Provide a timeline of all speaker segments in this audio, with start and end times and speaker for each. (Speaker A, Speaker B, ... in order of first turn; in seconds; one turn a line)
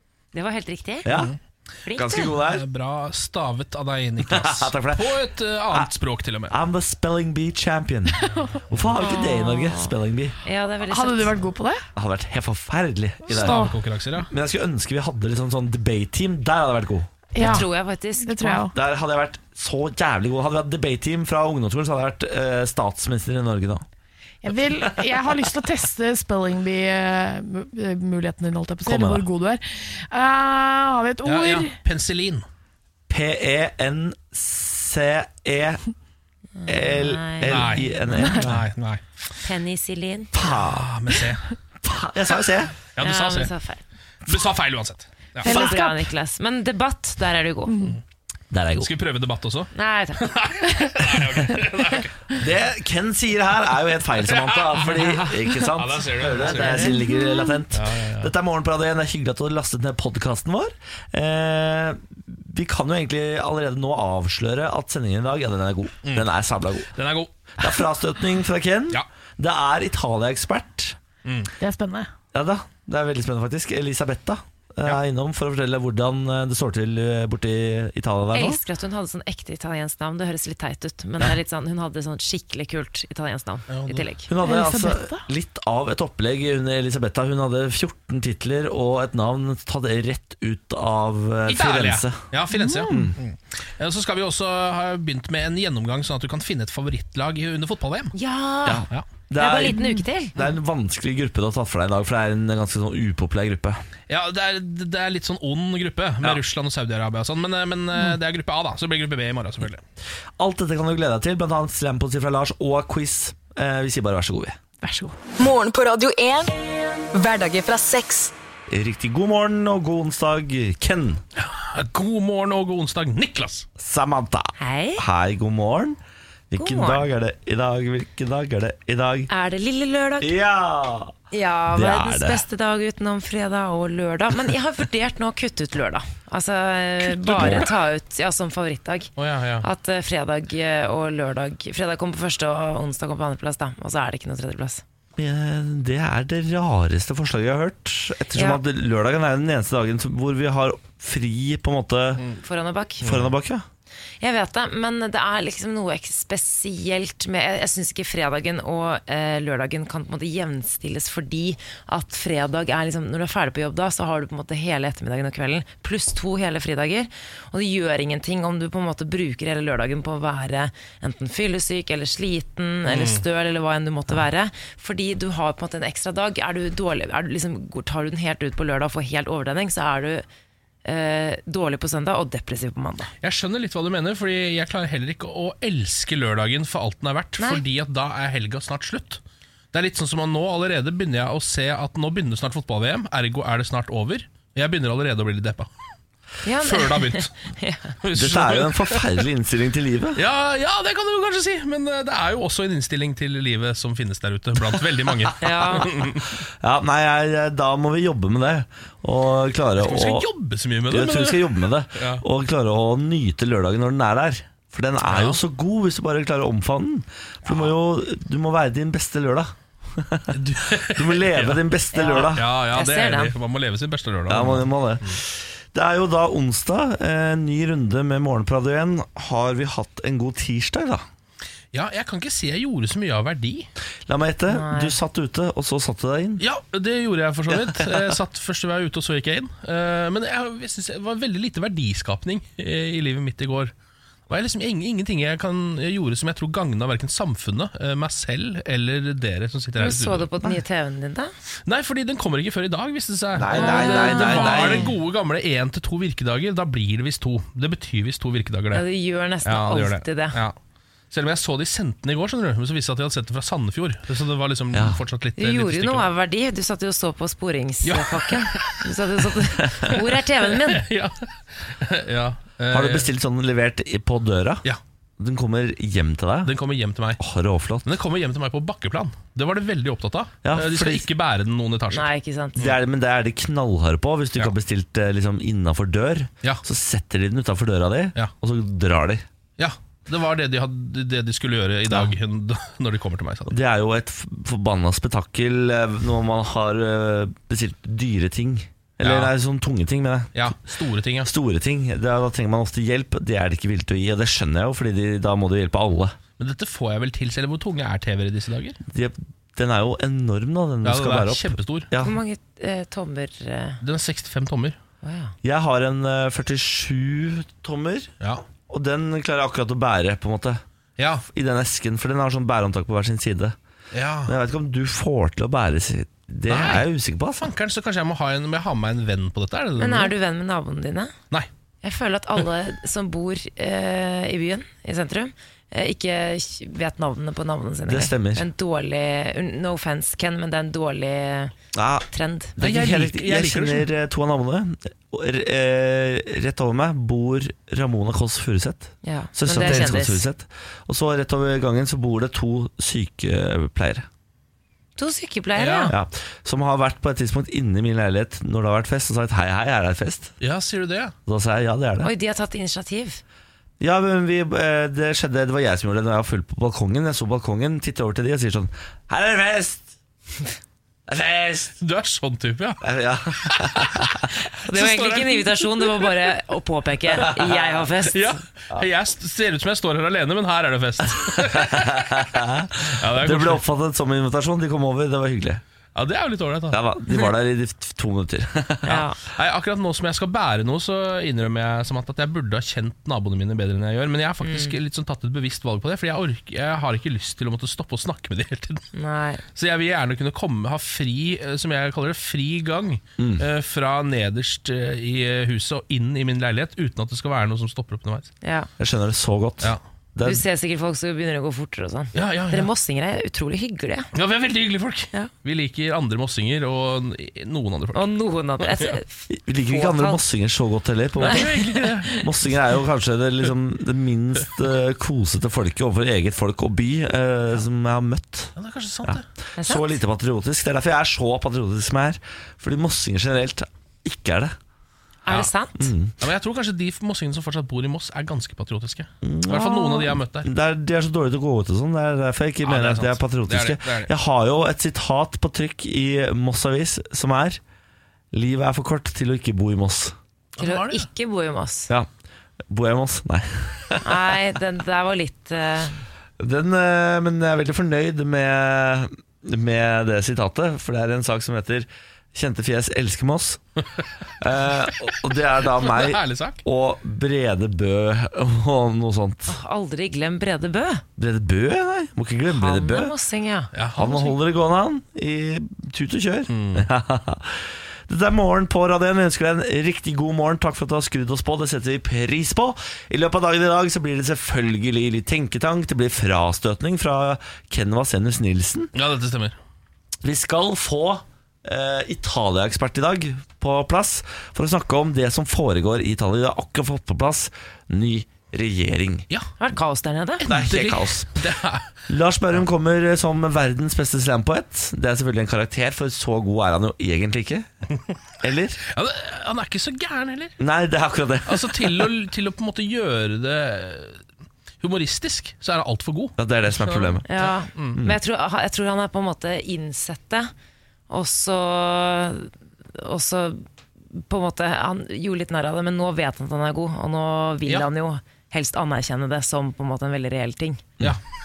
Speaker A: 0.3-1.1
Speaker B: 1.1-1.3
Speaker C: 1.1-1.4
Speaker A: 1.8-2.3
Speaker B: 1.9-2.6
Speaker C: 2.5-6.5
Speaker B: 4.2-5.2
Speaker B: 6.5-10.3
Speaker A: 9.0-9.9
Speaker A: 10.4-11.4
Speaker D: 10.9-11.8
Speaker B: 11.9-17.1
Speaker C: 13.3-14.3
Speaker D: 13.3-13.7
Speaker D: 17.3-17.7
Speaker A: 17.4-18.7
Speaker C: 17.4-17.7
Speaker D: 18.2-18.7
Speaker B: 18.7-23.8
Speaker D: 24.4-31.7
Speaker B: 28.8-29.3
Speaker C: 31.2-32.5
Speaker B: 33.1-35.8
Speaker A: 36.6-38.4
Speaker B: 36.7-38.6
Speaker C: 37.5-39.0
Speaker D: 38.1-38.5
Speaker A: 39.4-40.3
Speaker B: 40.3-40.9
Speaker C: 40.5-41.5
Speaker B: 41.8-42.7
Speaker C: 42.9-43.5
Speaker A: 43.0-43.8
Speaker C: 44.2-45.7
Speaker D: 45.4-46.1
Speaker A: 45.4-47.9
Speaker B: 48.5-48.9
Speaker C: 48.8-52.3
Speaker A: 49.7-50.3
Speaker B: 52.4-66.9
Speaker C: 54.2-54.9
Speaker C: 55.7-56.9
Speaker A: 56.4-56.9
Speaker C: 57.7-58.3
Speaker C: 66.9-67.8
Speaker B: 67.6-71.0
Speaker C: 71.2-71.5
Speaker D: 71.6-72.1
Speaker B: 72.3-78.6
Speaker A: 78.3-84.3
Speaker C: 83.7-84.0
Speaker B: 84.3-92.2
Speaker D: 84.4-85.2
Speaker C: 91.5-98.1
Speaker B: 92.9-93.2
Speaker A: 98.1-98.8
Speaker B: 98.6-99.8
Speaker A: 99.4-100.3
Speaker B: 100.3-103.8
Speaker C: 104.1-109.8
Speaker B: 110.4-114.6
Speaker D: 114.8-115.1
Speaker E: 115.4-116.5
Speaker E: 117.1-118.3
Speaker B: 118.7-121.2
Speaker C: 121.4-123.7
Speaker B: 123.8-126.0
Speaker A: 124.6-125.0
Speaker B: 126.5-129.3
Speaker A: 126.5-127.0
Speaker A: 129.3-130.3
Speaker B: 130.2-131.1
Speaker A: 131.3-144.8
Speaker B: 131.7-132.4
Speaker C: 137.1-137.7
Speaker B: 137.3-137.7
Speaker C: 139.2-139.7
Speaker B: 145.2-152.2
Speaker A: 148.3-148.6
Speaker A: 152.4-153.1
Speaker B: 153.0-153.6
Speaker A: 154.2-180.2
Speaker C: 172.8-173.2
Speaker A: 180.8-183.1
Speaker C: 183.2-189.2
Speaker C: 189.7-195.7
Speaker A: 196.4-197.9
Speaker C: 196.6-197.3
Speaker C: 198.0-199.2
Speaker B: 198.1-200.2
Speaker C: 200.2-206.3
Speaker A: 205.4-205.9
Speaker B: 206.0-210.3
Speaker C: 209.8-212.2
Speaker B: 210.9-222.5
Speaker C: 215.1-215.4
Speaker C: 220.3-221.6
Speaker A: 221.9-223.3
Speaker C: 222.3-225.2
Speaker B: 224.3-231.0
Speaker C: 231.7-233.7
Speaker B: 234.1-236.4
Speaker A: 234.5-234.9
Speaker C: 236.4-243.7
Speaker B: 237.5-238.1
Speaker C: 244.3-250.3
Speaker A: 249.8-251.3
Speaker C: 251.7-258.8
Speaker B: 253.3-254.9
Speaker A: 253.5-254.9
Speaker A: 258.7-260.4
Speaker C: 259.4-260.6
Speaker C: 261.1-266.1
Speaker B: 264.7-265.0
Speaker A: 265.4-270.9
Speaker C: 267.8-268.9
Speaker C: 269.8-273.1
Speaker B: 272.7-274.6
Speaker B: 275.2-276.5
Speaker C: 276.4-277.2
Speaker B: 277.2-277.9
Speaker C: 277.8-282.1
Speaker B: 280.4-281.1
Speaker A: 281.9-282.6
Speaker B: 282.6-289.2
Speaker C: 289.6-293.6
Speaker B: 293.5-300.5
Speaker C: 299.0-299.3
Speaker C: 300.3-301.3
Speaker B: 301.2-306.1
Speaker C: 306.4-308.8
Speaker B: 308.9-312.2
Speaker C: 310.8-311.9
Speaker A: 312.0-313.8
Speaker C: 313.8-314.8
Speaker A: 315.0-315.3
Speaker B: 315.4-318.1
Speaker B: 318.7-320.6
Speaker C: 321.0-321.2
Speaker B: 321.3-323.6
Speaker C: 323.9-324.3
Speaker B: 324.2-327.5
Speaker C: 326.5-326.9
Speaker C: 327.4-330.1
Speaker A: 329.8-331.1
Speaker A: 331.8-341.5
Speaker B: 337.9-338.4
Speaker B: 341.7-354.1
Speaker A: 342.1-342.5
Speaker C: 342.6-343.9
Speaker A: 349.0-350.2
Speaker A: 355.0-355.9
Speaker C: 355.6-355.9
Speaker B: 355.9-360.3
Speaker C: 360.4-361.1
Speaker B: 361.2-362.1
Speaker A: 362.0-363.2
Speaker B: 363.8-369.9
Speaker B: 371.1-371.7
Speaker C: 371.8-372.8
Speaker B: 372.8-374.2
Speaker C: 373.4-376.1
Speaker A: 374.5-378.4
Speaker B: 377.2-377.6
Speaker C: 378.1-382.2
Speaker B: 381.3-385.6
Speaker C: 382.8-383.6
Speaker C: 385.9-386.8
Speaker B: 386.7-389.0
Speaker A: 388.9-389.2
Speaker C: 388.9-398.9
Speaker A: 394.4-394.7
Speaker A: 398.9-399.4
Speaker C: 399.5-408.3
Speaker B: 403.2-403.4
Speaker A: 408.4-408.7
Speaker B: 408.8-410.4
Speaker A: 410.2-414.1
Speaker C: 412.1-412.7
Speaker C: 414.1-418.0
Speaker A: 417.9-420.2
Speaker C: 418.6-419.0
Speaker B: 419.3-428.5
Speaker C: 421.2-422.1
Speaker A: 421.3-422.2
Speaker C: 428.6-429.2
Speaker B: 429.1-434.6
Speaker A: 429.6-430.0
Speaker A: 435.2-435.9
Speaker B: 435.8-436.1
Speaker C: 436.2-440.5
Speaker B: 439.2-447.6
Speaker C: 442.6-444.1
Speaker B: 448.3-450.1
Speaker C: 450.6-451.1
Speaker A: 450.6-451.9
Speaker B: 452.7-454.4
Speaker A: 454.0-456.0
Speaker B: 456.4-463.6
Speaker B: 464.4-469.6
Speaker C: 465.7-466.6
Speaker A: 469.5-471.0
Speaker B: 471.2-473.1
Speaker A: 472.5-474.2
Speaker C: 473.7-474.2
Speaker B: 473.9-488.9
Speaker C: 476.5-476.9
Speaker C: 488.9-489.6
Speaker B: 490.2-499.2
Speaker A: 499.6-500.4
Speaker C: 500.4-502.0
Speaker B: 500.5-501.4
Speaker B: 502.1-507.7
Speaker B: 508.4-508.8
Speaker C: 508.8-510.6
Speaker B: 510.6-512.1
Speaker C: 511.4-514.2
Speaker C: 514.8-518.0
Speaker B: 516.4-517.3
Speaker A: 517.3-520.5
Speaker B: 517.9-518.2
Speaker A: 521.1-530.8